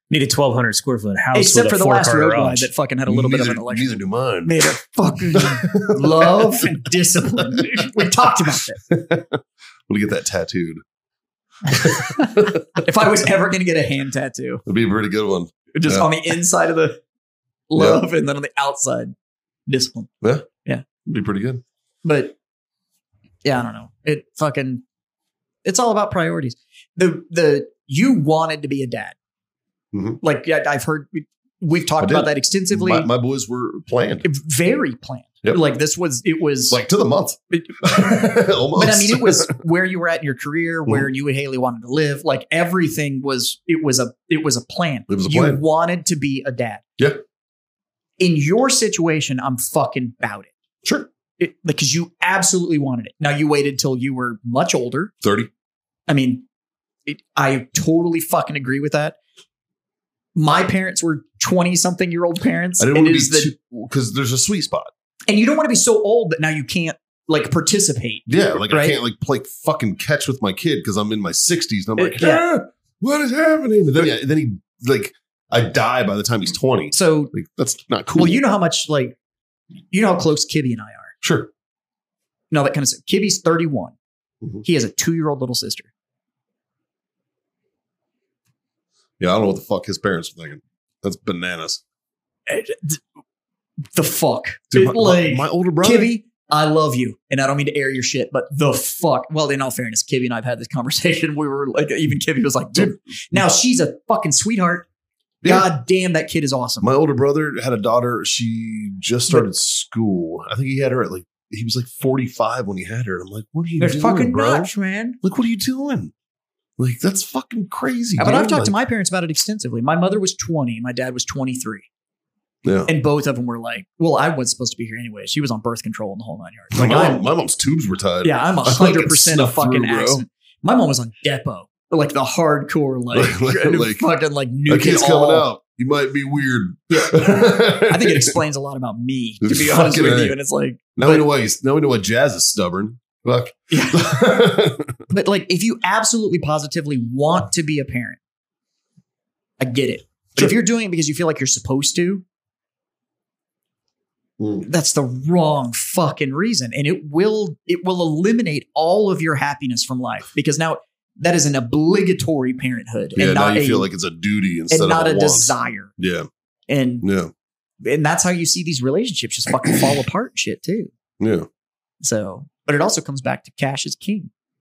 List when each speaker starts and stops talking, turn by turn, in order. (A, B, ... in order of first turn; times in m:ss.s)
0:00.1-0:02.7 A
0:01.3-0:08.8 B
0:03.1-0:04.6 C
0:05.3-0:06.7 C
0:07.6-0:08.0 C
0:08.9-0:10.8 C
0:11.6-0:12.8 C
0:12.8-0:14.6 B
0:14.7-0:16.1 C
0:15.7-0:17.0 B
0:17.7-0:19.2 B
0:17.8-0:18.0 C
0:19.7-0:20.1 B
0:20.2-0:20.5 C
0:21.0-0:21.6 C
0:22.0-0:22.4 B
0:23.4-0:24.8 B
0:25.6-0:29.2 B
0:29.9-0:30.2 C
0:30.2-0:33.1 B
0:32.0-0:34.3 C
0:34.2-0:36.8 B
0:36.7-0:39.6 C
0:37.5-0:38.2 B
0:38.8-0:46.8 B
0:45.1-0:45.6 C
0:48.2-0:50.5 B
0:51.4-0:55.1 B
0:55.2-0:55.5 C
0:56.1-0:56.4 B
0:57.1-0:59.2 B
1:00.4-1:03.5 B
1:02.8-1:04.9 C
1:05.3-1:09.0 B
1:08.3-1:18.4 C
1:12.0-1:12.4 B
1:16.9-1:17.3 B
1:18.2-1:19.2 B
1:19.9-1:21.2 B
1:21.2-1:21.5 C
1:22.5-1:24.0 B
1:24.6-1:25.9 B
1:29.2-1:31.8 C
1:32.5-1:33.0 B
1:33.9-1:44.9 B
1:34.7-1:36.1 C
1:42.8-1:43.4 C
1:45.4-1:45.7 C
1:45.4-1:46.9 B
1:46.8-1:54.7 C
1:53.8-1:55.2 B
1:55.2-1:56.1 C
1:56.8-1:58.7 C
1:58.2-2:01.9 B
2:02.6-2:02.9 C
2:02.9-2:07.2 B
2:06.7-2:10.2 C
2:08.2-2:15.5 B
2:13.1-2:14.1 C
2:14.7-2:18.3 C
2:16.9-2:21.3 B
2:19.4-2:20.4 C
2:21.0-2:25.0 C
2:23.7-2:24.1 B
2:25.1-2:28.2 B
2:29.6-2:32.2 B
2:34.4-2:34.6 C
2:34.6-2:43.9 B
2:43.2-2:46.3 C
2:44.7-2:45.9 B
2:46.7-2:47.1 B
2:47.0-2:47.3 C
2:47.8-2:50.9 B
2:51.2-2:51.5 C
2:52.0-2:54.3 B